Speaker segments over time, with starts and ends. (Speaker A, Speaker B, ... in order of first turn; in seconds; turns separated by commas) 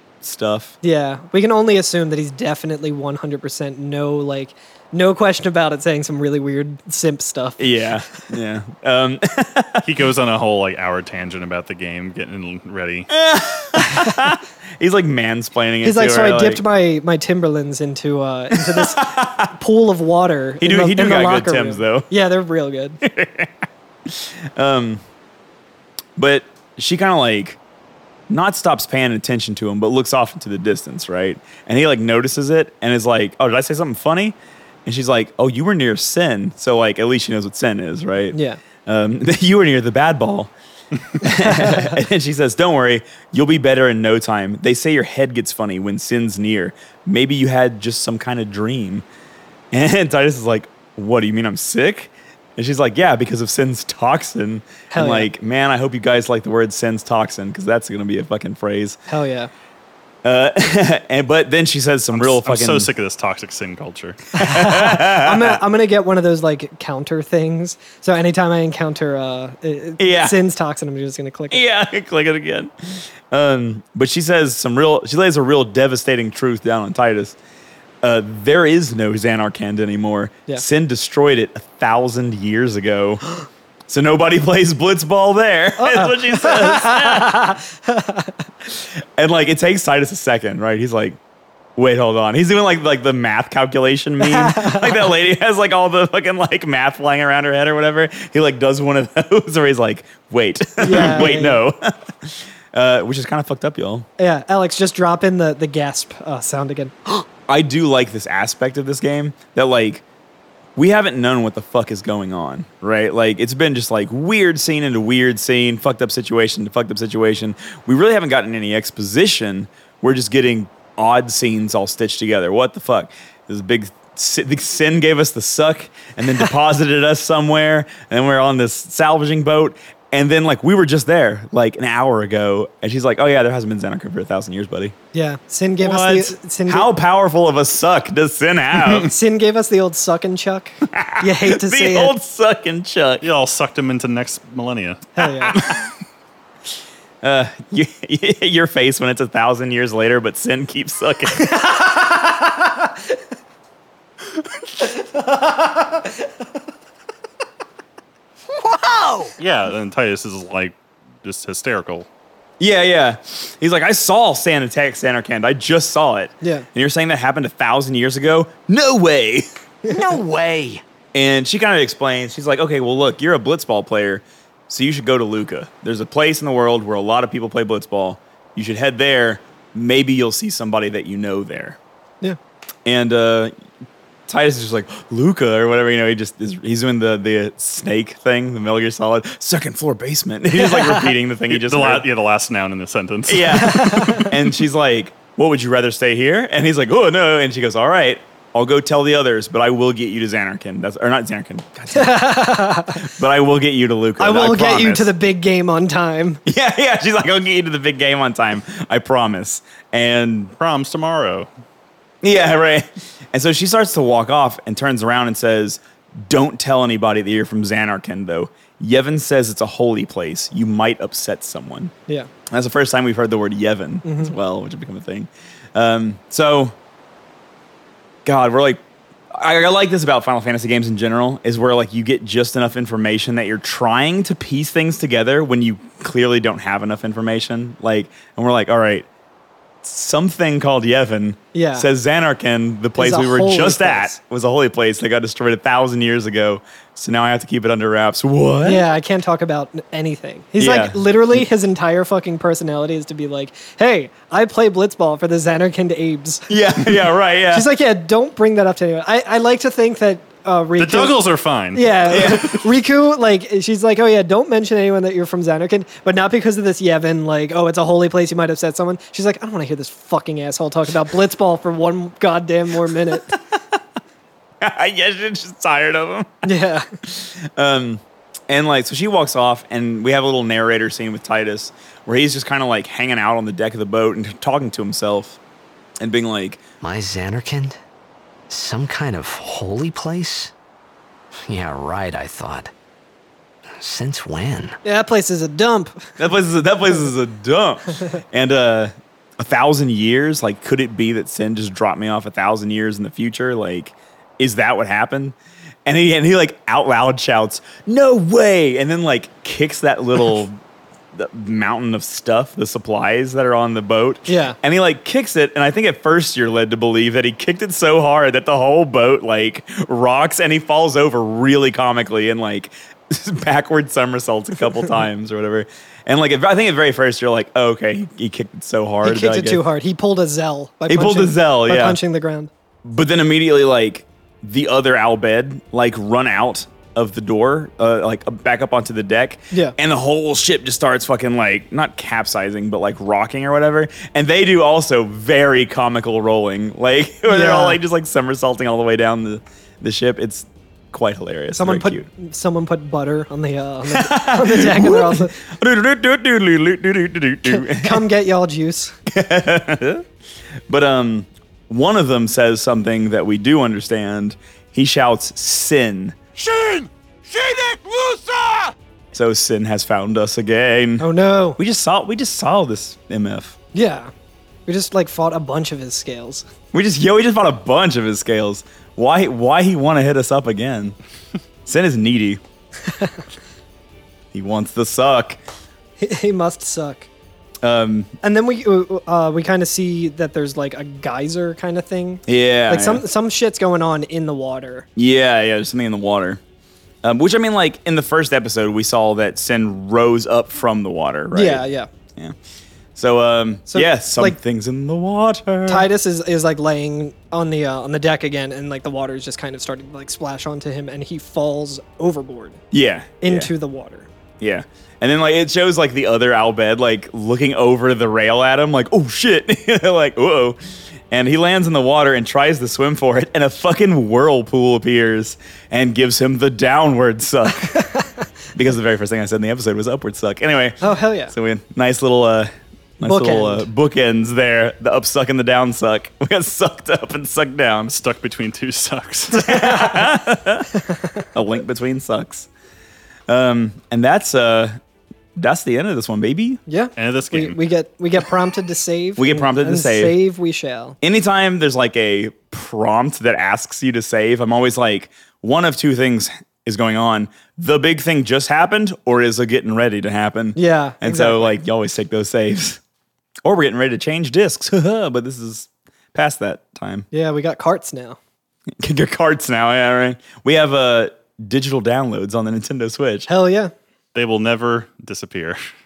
Speaker A: 0.2-0.8, Speaker B: 0.8-7.8, Speaker A: 7.6-9.9, Speaker C: 9.8-13.1, Speaker A: 13.1-16.6, Speaker B: 13.8-14.3, Speaker B: 15.8-23.0, Speaker A: 18.5-19.5, Speaker A: 20.6-22.1, Speaker A: 23.0-23.5, Speaker A: 24.1-25.0, Speaker A: 26.2-27.6, Speaker A: 28.3-40.5, Speaker B: 38.3-38.6, Speaker A: 41.2-49.0, Speaker B: 41.3-42.0, Speaker A: 49.7-59.0, Speaker B: 54.9-55.3, Speaker B: 59.1-59.5, Speaker A: 60.2-62.9, Speaker C: 62.1-64.3, Speaker A: 64.3-65.6, Speaker B: 64.4-71.6, Speaker A: 70.0-70.4, Speaker A: 71.5-77.4, Speaker A: 78.0-83.2, Speaker A: 83.9-87.5, Speaker B: 85.8-88.3, Speaker A: 88.7-91.2, Speaker A: 91.8-104.1, Speaker B: 94.2-95.1, Speaker B: 100.8-101.6, Speaker B: 104.2-107.0, Speaker A: 107.5-110.0, Speaker A: 110.8-134.9, Speaker B: 135.1-136.9, Speaker A: 135.8-139.1, Speaker B: 139.0-142.1, Speaker A: 140.9-143.2, Speaker C: 143.2-145.1, Speaker B: 145.2-145.6, Speaker A: 147.2-151.6, Speaker B: 151.3-152.9, Speaker B: 154.8-156.1, Speaker D: 158.5-159.3, Speaker C: 159.4-162.1, Speaker A: 162.6-169.5, Speaker B: 166.4-166.7, Speaker D: 169.9-170.8, Speaker A: 171.1-181.8, Speaker A: 182.9-183.5, Speaker A: 184.3-192.1, Speaker B: 190.7-191.1, Speaker C: 191.5-194.3, Speaker A: 193.3-202.3, Speaker B: 193.5-194.3, Speaker B: 201.9-203.1, Speaker A: 202.9-205.1, Speaker B: 204.2-206.4, Speaker A: 206.5-210.5, Speaker C: 210.6-211.5, Speaker A: 212.2-221.9, Speaker A: 222.5-226.8, Speaker B: 224.1-224.3, Speaker A: 228.2-239.1, Speaker A: 239.8-248.8, Speaker B: 241.5-241.9, Speaker B: 243.0-244.2, Speaker B: 248.6-261.2, Speaker A: 250.6-251.4, Speaker A: 256.5-257.7, Speaker C: 260.8-262.4, Speaker B: 261.7-273.4, Speaker A: 262.1-262.5, Speaker A: 273.1-273.8, Speaker A: 274.6-276.5, Speaker B: 276.4-276.9, Speaker A: 277.1-285.4, Speaker A: 286.0-286.6, Speaker D: 286.8-287.8, Speaker D: 288.5-290.5, Speaker D: 291.5-292.7, Speaker D: 293.8-294.8, Speaker B: 294.9-296.1, Speaker A: 296.2-310.6, Speaker A: 311.1-329.6, Speaker B: 314.3-314.6, Speaker B: 329.0-332.5, Speaker A: 330.9-332.0, Speaker A: 332.9-352.1, Speaker B: 347.3-347.8, Speaker B: 351.6-355.4, Speaker A: 353.9-358.1, Speaker B: 357.4-358.9, Speaker A: 359.1-360.1, Speaker A: 360.7-366.2, Speaker E: 366.4-368.7, Speaker A: 369.1-371.1, Speaker B: 371.0-371.6, Speaker A: 371.6-373.6, Speaker B: 373.7-374.1, Speaker B: 374.7-376.5, Speaker A: 376.7-381.0, Speaker A: 381.7-382.4, Speaker B: 382.8-383.2, Speaker A: 384.3-385.4, Speaker B: 386.0-387.1, Speaker A: 387.6-388.1, Speaker B: 388.2-394.9, Speaker A: 392.3-393.0, Speaker A: 395.0-396.4, Speaker A: 397.0-401.6, Speaker B: 401.3-401.9, Speaker A: 402.9-405.9, Speaker B: 403.7-404.4, Speaker B: 405.7-412.6, Speaker A: 412.7-413.5, Speaker B: 413.2-414.1, Speaker A: 414.4-420.6, Speaker A: 421.1-427.9, Speaker A: 428.5-430.8, Speaker B: 430.8-431.3, Speaker A: 431.3-437.9, Speaker B: 433.1-433.7, Speaker C: 437.9-439.7, Speaker A: 439.3-440.7, Speaker A: 441.3-442.5, Speaker A: 443.3-444.8, Speaker A: 445.4-446.6, Speaker B: 446.7-451.0, Speaker C: 447.0-447.6, Speaker A: 449.2-450.2, Speaker A: 451.0-462.8, Speaker B: 460.6-461.5, Speaker A: 463.4-467.1, Speaker B: 467.1-468.2, Speaker A: 468.8-473.3, Speaker B: 473.3-473.7, Speaker C: 474.1-475.7